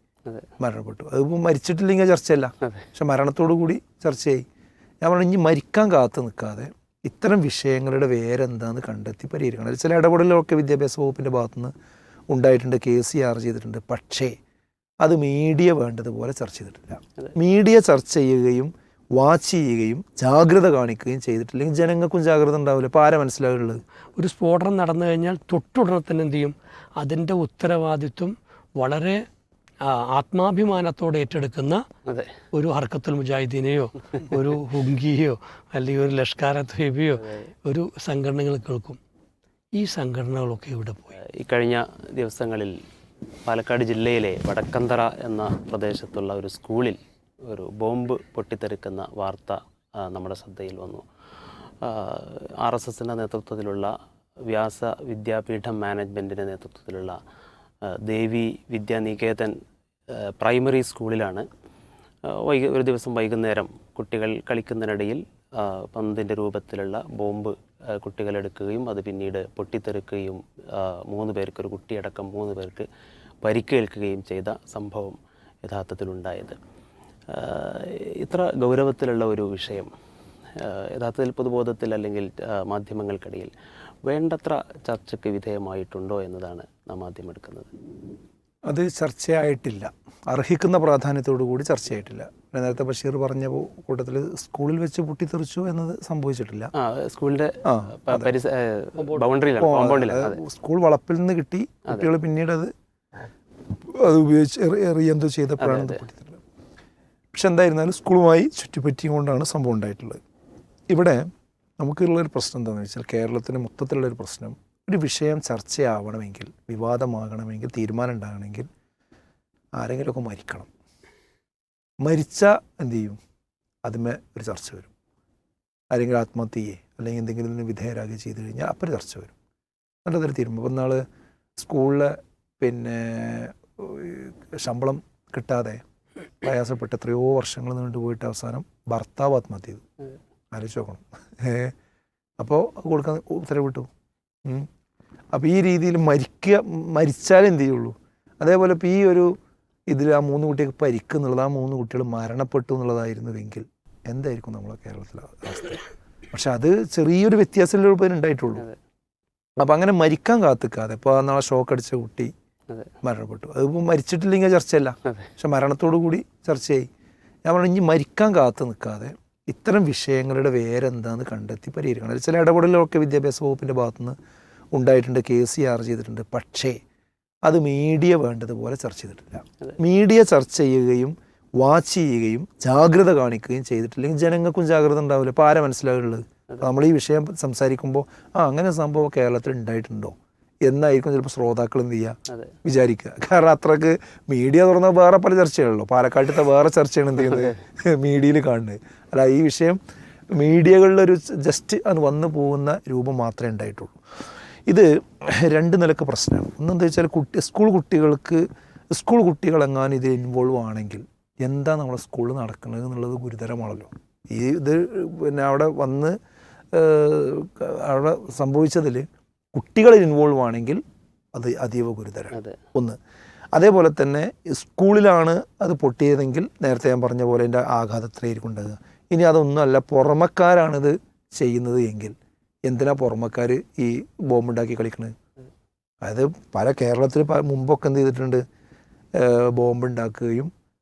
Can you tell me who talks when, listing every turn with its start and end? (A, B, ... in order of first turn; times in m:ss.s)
0:00.6-0:04.4 A
0:05.0-0:11.7 A
0:12.3-0:14.4 A
0:15.0-0:23.8 A
0:24.2-0:29.2 B
0:29.8-0:31.8 B
0:32.1-0:32.3 C
0:32.5-0:39.0 B
0:37.2-0:37.5 C
0:39.8-0:41.2 B
0:41.1-0:42.8 C
0:43.4-0:51.0 C
0:51.8-0:53.9 C
0:54.4-0:57.2 C
0:57.9-0:59.5 C
1:00.1-1:01.4 C
1:02.2-1:12.8 C
1:13.4-1:16.6 C
1:17.3-1:19.9 C
1:20.6-1:23.5 C
1:24.0-1:27.7 C
1:28.7-1:36.7 A
1:36.7-1:40.4 C
1:37.6-1:38.3 A
1:39.0-1:39.3 B
1:39.6-1:42.7 A
1:43.8-1:46.4 A
1:45.6-1:46.1 C
1:47.3-1:50.2 A
1:50.9-1:51.2 A
1:51.8-1:58.7 A
1:59.8-2:00.7 A
2:02.0-2:03.2 A
2:03.8-2:04.9 A
2:05.9-2:09.3 A
2:10.0-2:11.0 A
2:11.6-2:15.8 A
2:16.4-2:19.8 A
2:20.5-2:21.7 A
2:22.4-2:23.9 A
2:25.3-2:29.4 A
2:29.9-2:38.7 A
2:39.6-2:42.3 A
2:43.0-2:46.9 A
2:45.0-2:45.3 C
2:47.4-2:54.2 A
2:54.7-2:56.8 A
2:57.4-3:19.8 A
3:12.3-3:12.6 C
3:20.3-3:24.0 A
3:24.7-3:36.2 A
3:36.7-3:40.8 A
3:41.3-3:43.0 A
3:43.5-3:52.1 A
3:52.6-3:55.1 A
3:56.0-3:58.4 A
3:59.1-4:00.5 A